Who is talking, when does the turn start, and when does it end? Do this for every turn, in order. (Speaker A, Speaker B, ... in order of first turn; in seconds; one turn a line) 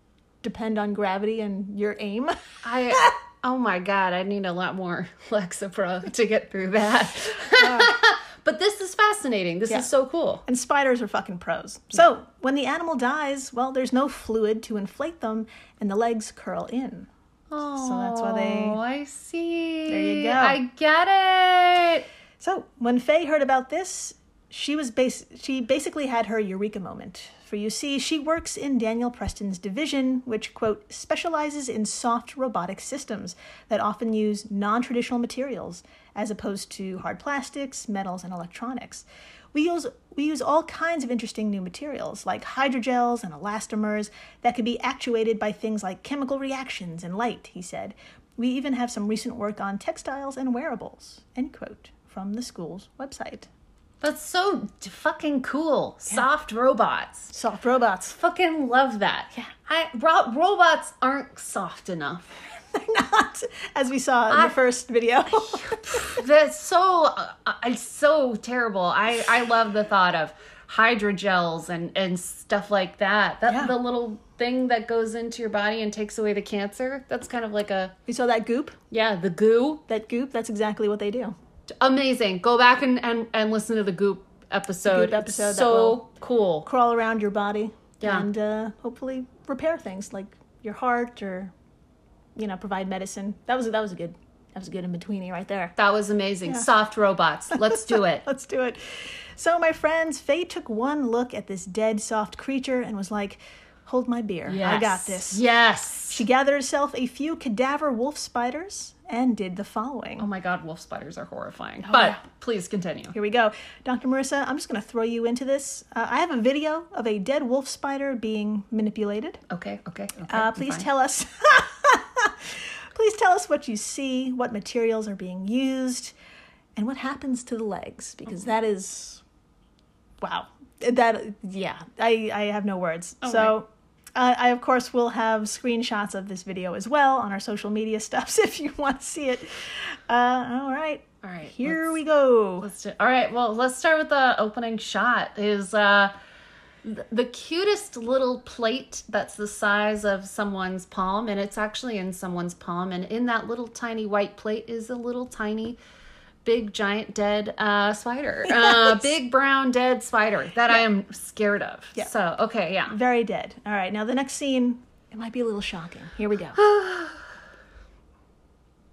Speaker A: 0.4-3.1
Speaker B: 2.6-10.4
Speaker A: 7.6-7.9
Speaker A: 10.4-17.1
Speaker B: 17.5-22.1
Speaker A: 17.8-18.8
Speaker A: 19.9-20.6
Speaker A: 22.4-53.5
Speaker B: 54.0-57.3
Speaker A: 57.3-58.2
Speaker B: 58.1-62.4
Speaker A: 62.7-66.2
Speaker B: 64.3-64.5
Speaker B: 65.5-78.0
Speaker A: 73.5-73.8
Speaker A: 78.1-78.8
Speaker B: 78.9-79.8
Speaker A: 79.9-81.4
Speaker B: 81.8-86.7
Speaker A: 84.9-86.0
Speaker A: 86.7-91.5
Speaker B: 88.0-88.3
Speaker A: 92.4-95.8
Speaker B: 95.8-98.3
Speaker A: 97.5-105.4
Speaker B: 104.5-106.2
Speaker A: 106.1-110.3
Speaker B: 110.2-113.2
Speaker A: 111.8-112.2
Speaker A: 113.1-119.4
Speaker B: 119.5-120.9
Speaker A: 120.3-126.1
Speaker A: 126.8-129.2
Speaker A: 130.2-142.7
Speaker B: 133.2-133.6
Speaker B: 141.2-142.0
Speaker B: 142.6-146.1
Speaker B: 146.8-155.8
Speaker B: 156.4-163.0
Speaker A: 158.6-159.0
Speaker A: 162.9-166.6
Speaker B: 166.6-167.2